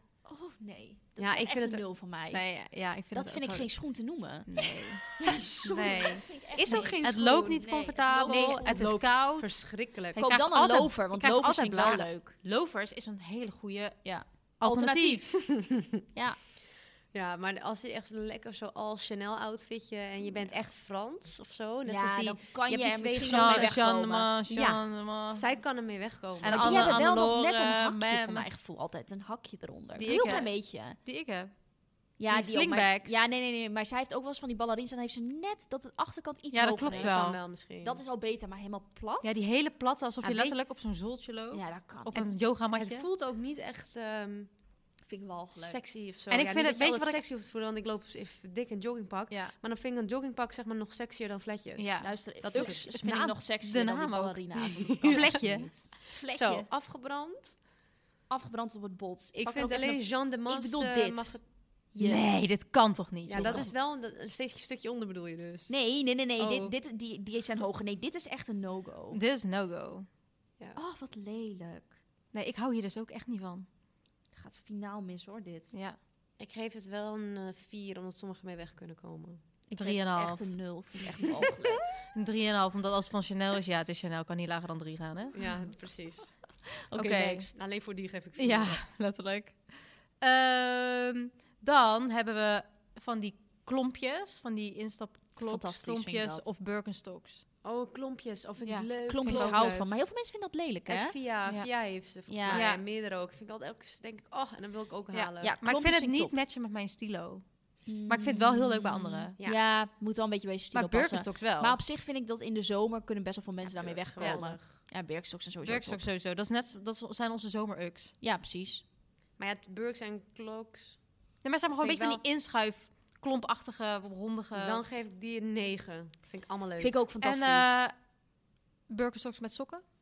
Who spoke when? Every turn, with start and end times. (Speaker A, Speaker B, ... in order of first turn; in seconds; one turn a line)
Speaker A: 0.2-2.5
Speaker B: 1.2-1.8
Speaker C: 2.3-3.7
Speaker A: 3.1-9.2
Speaker C: 4.5-5.1
Speaker B: 5.6-10.2
Speaker C: 5.7-15.5
Speaker A: 10.2-12.3
Speaker A: 14.0-15.5
Speaker A: 16.1-16.4
Speaker B: 17.1-23.8
Speaker A: 21.9-24.3
Speaker C: 23.2-25.5
Speaker B: 24.5-27.0
Speaker C: 26.4-28.5
Speaker A: 26.4-31.0
Speaker C: 30.0-31.6
Speaker B: 30.1-30.4
Speaker C: 32.1-33.2
Speaker A: 32.2-37.3
Speaker C: 36.5-37.4
Speaker B: 36.8-38.0
Speaker A: 37.8-39.5
Speaker C: 39.2-43.1
Speaker B: 40.2-40.6
Speaker A: 41.5-42.2
Speaker B: 42.1-44.5
Speaker A: 45.0-45.8
Speaker B: 45.5-53.0
Speaker C: 46.3-47.2
Speaker C: 51.8-56.0
Speaker A: 52.0-56.6
Speaker B: 55.0-55.4
Speaker B: 56.1-57.6
Speaker A: 58.3-61.4
Speaker B: 59.3-61.4
Speaker A: 61.9-62.3
Speaker C: 62.0-63.7
Speaker B: 63.2-65.7
Speaker A: 63.4-63.7
Speaker A: 65.7-69.2
Speaker B: 66.3-66.7
Speaker C: 69.1-70.1
Speaker A: 70.8-72.0
Speaker C: 72.3-73.7
Speaker A: 74.3-75.7
Speaker C: 75.7-76.0
Speaker B: 76.4-79.5
Speaker A: 79.7-81.8
Speaker C: 79.7-80.5
Speaker C: 82.1-85.4
Speaker B: 85.3-86.4
Speaker A: 86.8-87.5
Speaker C: 86.9-87.5
Speaker B: 87.5-88.8
Speaker C: 88.4-97.4
Speaker A: 95.4-96.5
Speaker B: 97.6-99.9
Speaker C: 98.6-99.8
Speaker A: 99.0-101.1
Speaker B: 100.9-105.6
Speaker A: 102.3-102.6
Speaker C: 102.5-102.8
Speaker C: 105.1-109.3
Speaker A: 105.4-106.3
Speaker A: 107.9-116.0
Speaker C: 110.7-111.8
Speaker B: 113.6-114.7
Speaker C: 115.6-118.1
Speaker A: 118.2-118.8
Speaker B: 119.4-121.0
Speaker C: 121.4-124.8
Speaker B: 121.8-122.2
Speaker B: 124.5-127.0
Speaker A: 126.8-127.8
Speaker C: 127.2-127.9
Speaker C: 128.9-129.8